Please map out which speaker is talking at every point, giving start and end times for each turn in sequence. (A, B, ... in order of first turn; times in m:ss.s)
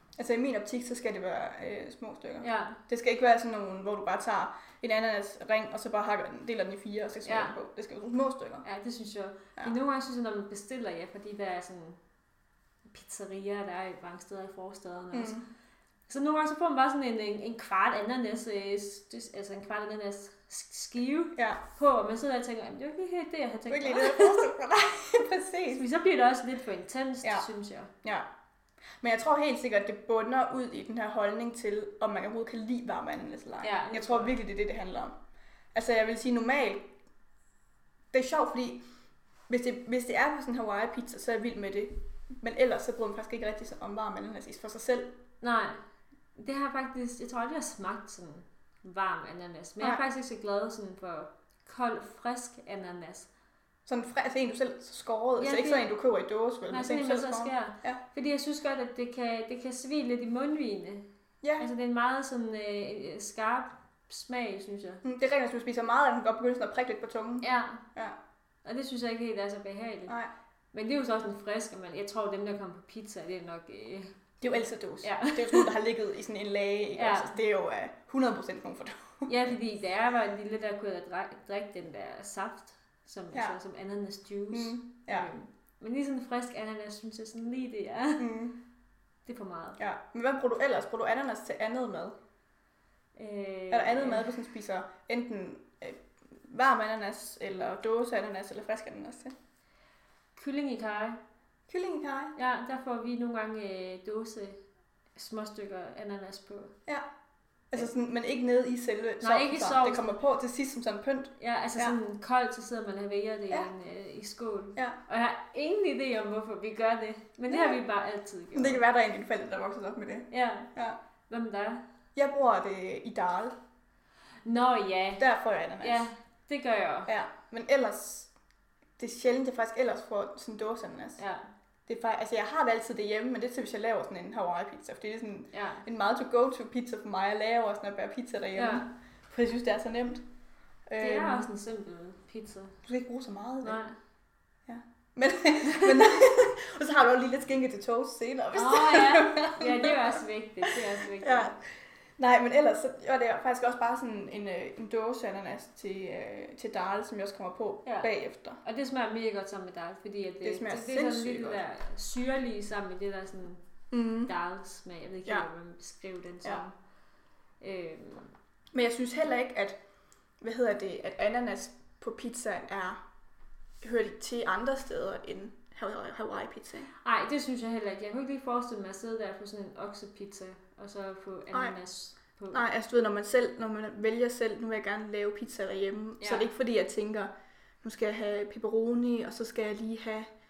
0:00.2-0:08.6 A
0:02.4-0:02.8 B
0:07.3-0:07.6 B
0:08.6-0:12.0 B
0:12.9-0:15.4 B
0:15.1-0:15.4 A
0:16.1-0:24.5 B
0:23.7-0:25.8 A
0:25.7-0:27.9 B
0:29.0-0:35.1 A
0:33.6-0:34.4 B
0:35.7-0:36.9 A
0:38.1-0:38.8 A
0:39.5-0:45.1 A
0:45.4-0:45.8 B
0:46.4-0:53.3 B
0:53.9-0:58.0 A
0:55.4-0:55.9 B
0:56.7-1:01.0 B
1:01.4-1:01.7 A
1:01.6-1:05.0 B
1:05.0-1:08.2 A
1:07.4-1:07.8 B
1:08.6-1:10.2 B
1:10.7-1:14.1 B
1:14.4-1:19.5 A
1:15.0-1:15.7 B
1:17.0-1:17.4 B
1:19.3-1:28.3 B
1:24.5-1:25.3 A
1:28.2-1:28.6 A
1:29.3-1:29.8 B
1:29.8-1:32.2 A
1:33.2-1:34.3 B
1:33.7-1:39.3 A
1:40.4-1:41.2 B
1:41.7-1:42.3 A
1:42.4-1:44.6 B
1:45.2-1:46.7 B
1:47.7-1:52.0 A
1:49.2-1:50.2 B
1:51.4-1:58.8 B
1:57.5-1:57.8 A
1:58.5-2:01.0 A
2:00.3-2:00.7 B
2:01.3-2:01.8 B
2:02.2-2:03.6 A
2:04.4-2:05.2 B
2:05.2-2:06.1 A
2:05.8-2:07.1 B
2:07.1-2:08.3 A
2:09.0-2:11.2 A
2:11.2-2:11.4 B
2:11.9-2:20.2 A
2:15.5-2:15.9 B
2:18.6-2:18.8 B
2:20.9-2:21.5 A
2:21.0-2:22.8 B
2:22.8-2:23.8 A
2:23.6-2:24.0 B
2:24.7-2:31.6 A
2:28.5-2:31.5 B
2:32.2-2:38.6 A
2:37.8-2:38.1 B
2:38.6-2:43.6 B
2:40.4-2:41.6 A
2:43.9-2:44.3 A
2:44.3-2:46.7 B
2:47.6-2:48.3 B
2:48.7-2:49.8 A
2:50.4-2:53.0 A
2:53.8-2:56.9 A
2:57.0-3:02.6 B
3:02.5-3:07.3 A
3:06.2-3:06.5 B
3:07.8-3:10.3 A